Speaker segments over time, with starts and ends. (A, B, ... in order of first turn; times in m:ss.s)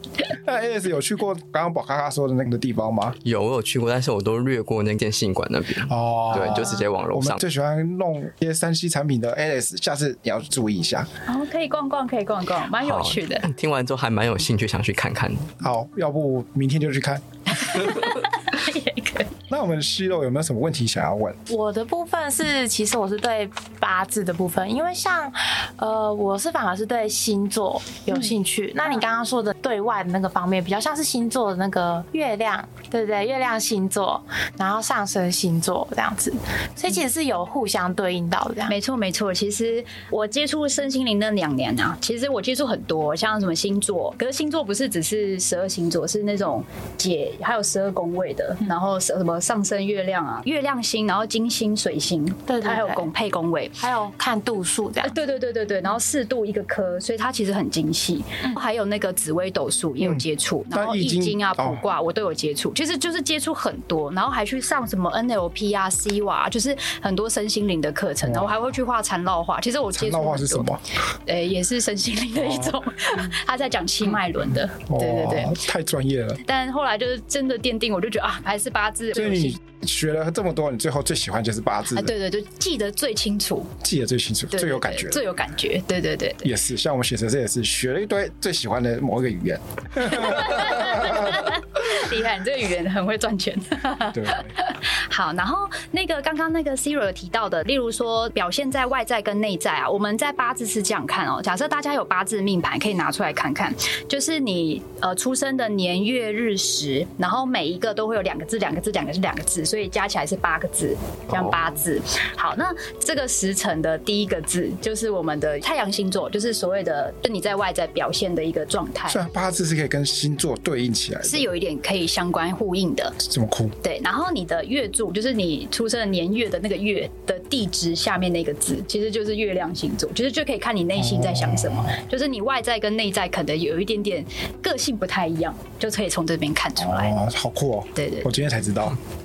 0:00.3-0:03.2 A
0:03.2-0:07.4 B
0:05.9-0:11.1 A
0:11.3-0:13.4 C
0:12.8-0:15.5 B
0:15.6-0:17.8 A
0:17.7-0:19.3 C
0:19.5-0:21.4 A
0:21.5-0:38.7 D
0:38.7-0:53.8 C
0:52.5-0:53.1 D
0:53.8-0:55.1 D
0:55.0-1:10.6 C
1:00.0-1:01.8 A
1:08.2-1:08.6 A
1:09.9-1:10.8 A
1:11.2-1:15.6 C
1:12.4-1:12.8 A
1:14.9-1:16.4 A
1:16.4-1:19.6 C
1:19.1-1:22.1 A
1:21.9-1:23.7 C
1:23.8-1:25.2 A
1:24.5-1:26.5 C
1:26.4-1:31.5 A
1:30.0-1:59.2 C
1:34.1-1:34.5 A
1:59.1-2:01.5 A
2:01.2-2:03.2 C
2:03.2-2:03.8 A
2:03.8-2:17.2 C
2:11.0-2:12.0 A
2:16.8-2:19.0 A
2:17.9-2:18.3 C